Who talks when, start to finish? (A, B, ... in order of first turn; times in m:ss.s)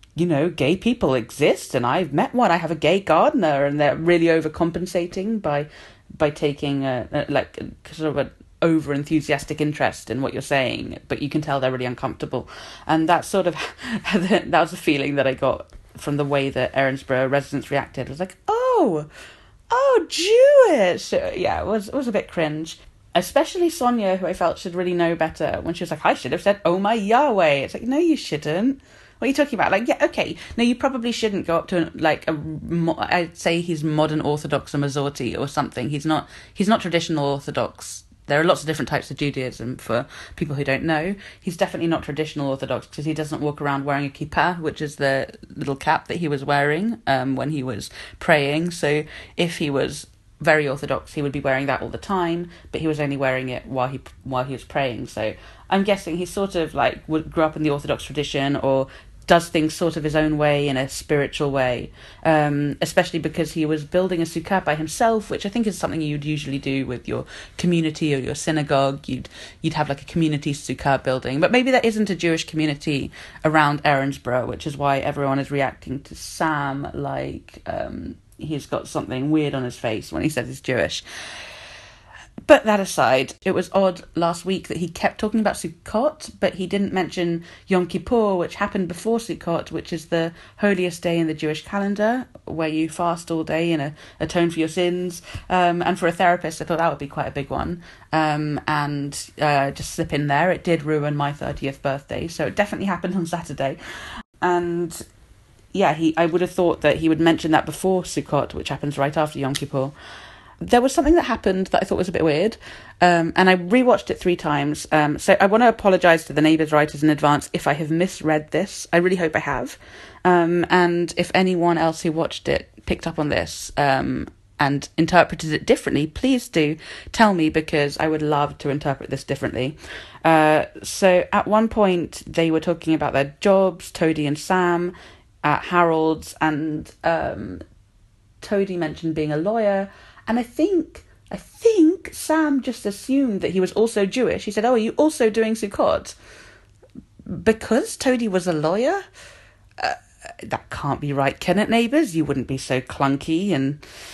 0:00.2-0:19.1 A
0:19.7-1:21.0 A
1:22.4-1:43.8 A
1:44.4-1:45.0 A
1:45.7-1:49.9 A
1:50.6-2:17.6 A
2:18.4-2:26.1 A
2:27.2-2:29.0 A
2:29.8-2:33.8 A